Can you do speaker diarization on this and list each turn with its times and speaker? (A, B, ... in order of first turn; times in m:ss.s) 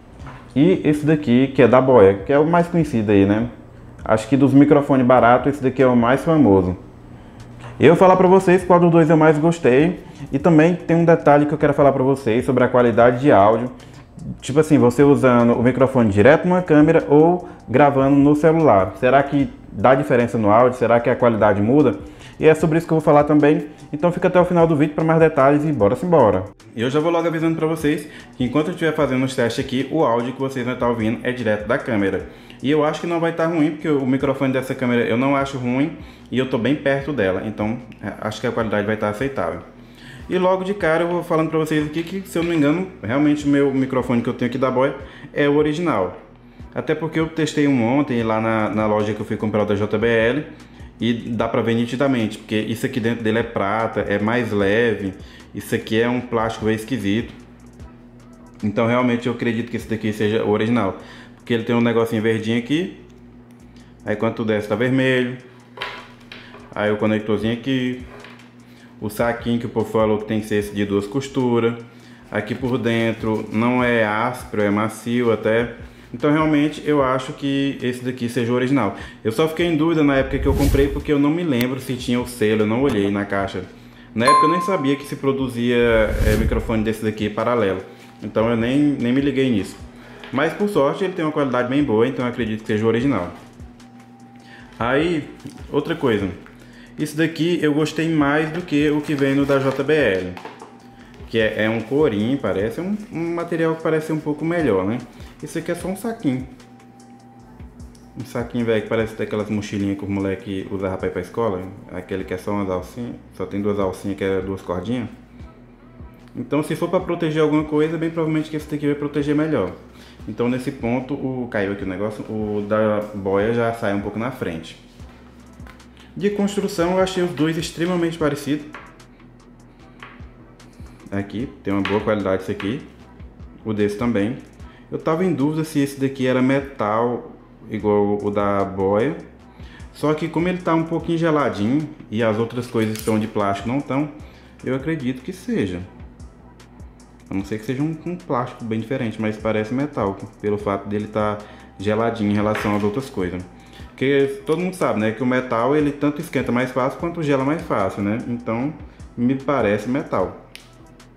0:00.5-0:03.5 A
0:04.0-0:06.8 A
0:07.8-0:13.7 A
0:14.4-0:39.6 A
0:40.3-0:46.2 A
0:46.7-0:57.4 A
0:58.6-1:03.0 A
1:04.0-1:05.4 A
1:06.7-1:08.0 A
1:09.0-1:33.4 A
1:34.8-1:36.4 A
1:37.0-1:40.4 A
1:41.3-1:46.5 A
1:48.2-1:55.1 A
1:56.4-2:04.8 A
2:06.2-2:08.7 A
2:11.1-2:12.9 A
2:13.6-2:19.2 A
2:19.9-2:25.9 A
2:27.3-2:40.4 A